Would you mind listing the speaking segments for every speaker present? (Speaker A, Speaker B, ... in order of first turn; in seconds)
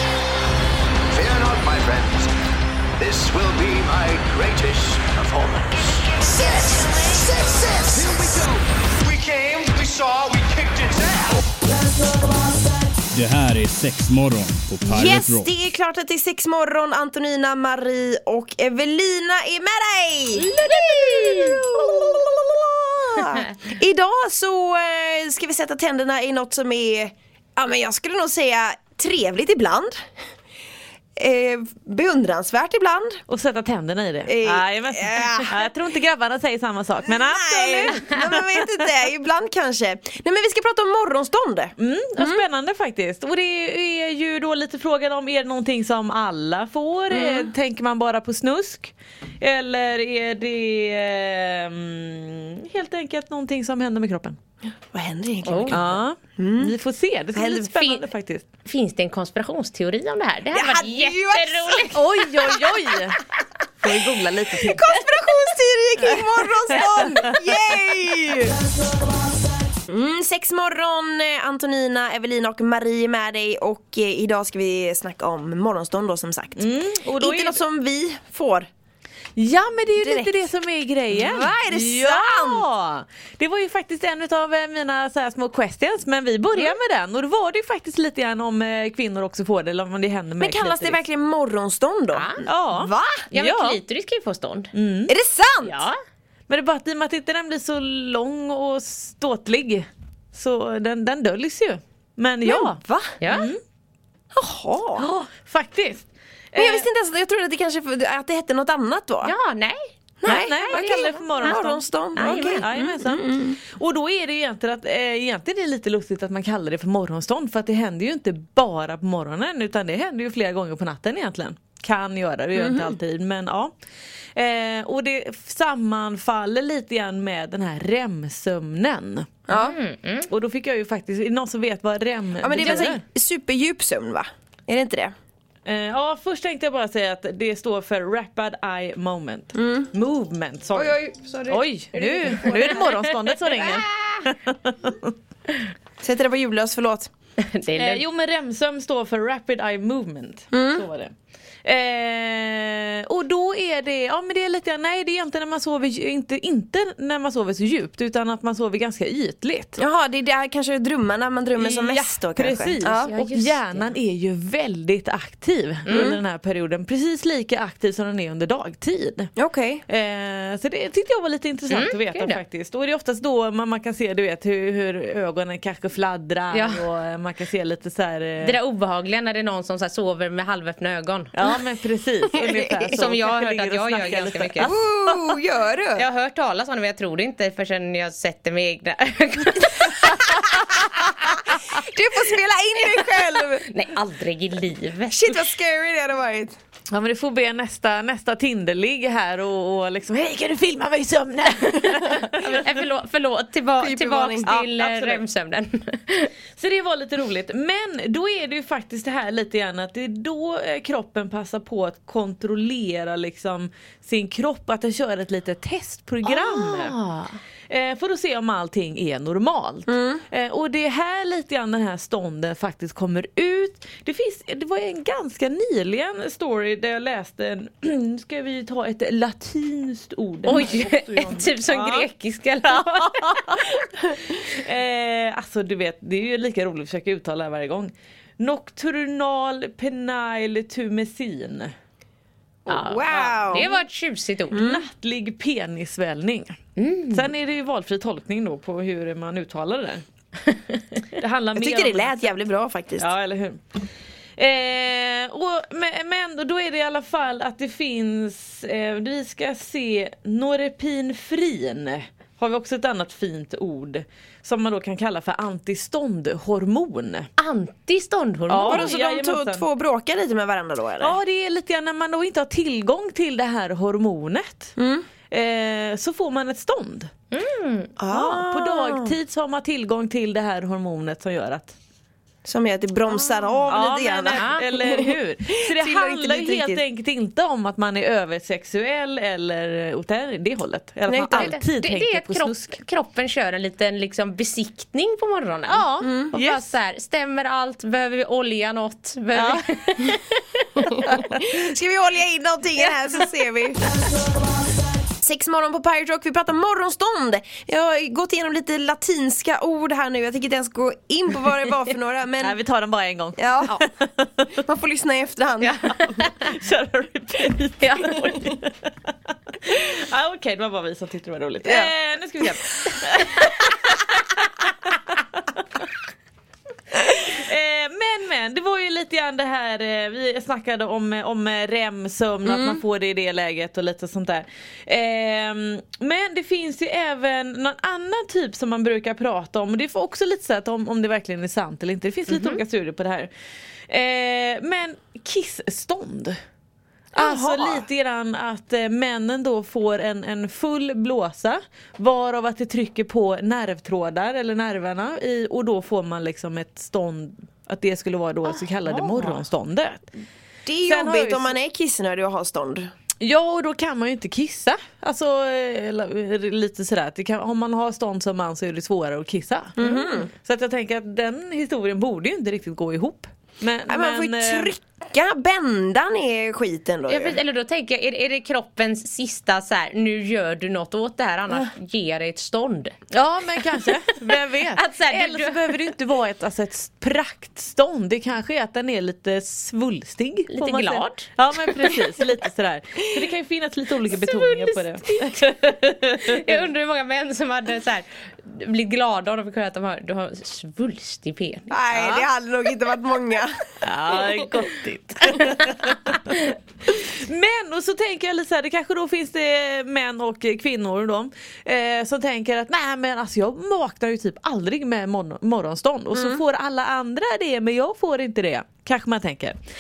Speaker A: 1.1-2.3, 3.0-6.0, 7.9-8.4, 9.0-11.4
Speaker B: 13.1-15.5
Speaker C: 14.8-30.0, 31.2-33.2, 34.3-35.7, 37.0-42.4, 47.1-47.5, 54.9-56.8, 57.4-57.7, 60.5-62.0, 64.6-68.6, 69.9-76.7, 77.2-78.7, 80.0-80.3, 81.1-82.7, 90.4-93.3, 95.1-95.8, 102.5-103.2, 104.3-105.1, 106.6-109.3, 110.2-113.6, 122.6-122.9, 129.5-129.8, 132.4-135.1, 139.6-139.9, 140.7-142.9, 146.0-147.1, 150.5-150.9, 159.8-163.1, 165.9-166.2, 169.4-169.8, 182.4-182.8, 184.6-186.0, 191.6-193.7, 195.1-196.5, 203.8-204.5, 219.9-220.2, 242.7-243.8, 244.5-244.8, 251.6-253.1, 268.6-271.2, 274.8-275.1, 278.0-279.1, 282.4-286.8, 291.1-291.6, 296.0-296.3, 301.1-303.8, 305.2-312.6, 313.4-313.7, 314.6-316.0, 321.6-321.9, 347.1-347.9, 360.7-362.9, 369.8-370.3, 373.9-377.4, 401.7-403.6, 416.1-416.4
Speaker D: 20.4-22.1, 33.3-38.6, 41.8-54.4, 55.7-58.5, 61.9-63.2, 63.8-64.8, 66.1-67.3, 76.6-77.6, 79.4-91.0, 92.5-93.8, 94.7-95.1, 96.5-103.6, 105.0-106.9, 110.3-123.7, 124.4-129.5, 130.3-133.0, 135.7-141.0, 141.5-145.1, 147.8-151.1, 151.7-159.8, 161.6-169.3, 169.9-178.6, 181.3-185.2, 196.9-202.8, 204.4-205.2, 206.6-217.0, 217.7-232.1, 232.6-241.7, 243.1-243.7, 244.5-246.6, 247.1-250.0, 251.2-252.3, 253.0-253.8, 254.4-267.3, 268.5-269.6, 271.0-274.8, 275.3-277.1, 278.1-281.8, 283.7-292.8, 295.7-296.7, 299.3-299.6, 301.1-301.4, 312.4-314.5, 316.0-324.4, 325.1-325.9, 326.9-343.3, 343.9-346.4, 347.1-360.1, 360.8-361.6, 363.2-374.7, 383.1-396.7, 401.9-402.3, 403.8-406.3, 406.9-419.6
Speaker E: 55.5-55.8, 57.7-58.1, 58.6-62.0, 92.1-92.5, 93.3-94.7, 95.6-96.0, 103.2-103.5, 109.2-111.6, 112.2-112.7, 129.5-130.3, 142.2-143.8, 147.4-148.0, 162.9-163.9, 165.9-166.1, 171.7-172.4, 176.5-176.9, 178.4-181.3, 182.9-184.7, 186.0-191.1, 193.7-195.3, 202.4-206.3, 216.2-217.3, 230.5-233.5, 242.7-244.6, 246.8-247.3, 267.4-269.0, 277.3-277.9, 284.3-284.6, 291.3-300.8, 315.6-316.5, 317.8-318.3, 323.2-323.5, 342.3-342.6, 358.5-359.4, 377.1-382.9, 384.1-385.9, 390.5-392.0, 394.1-395.5, 396.2-402.0, 405.4-405.6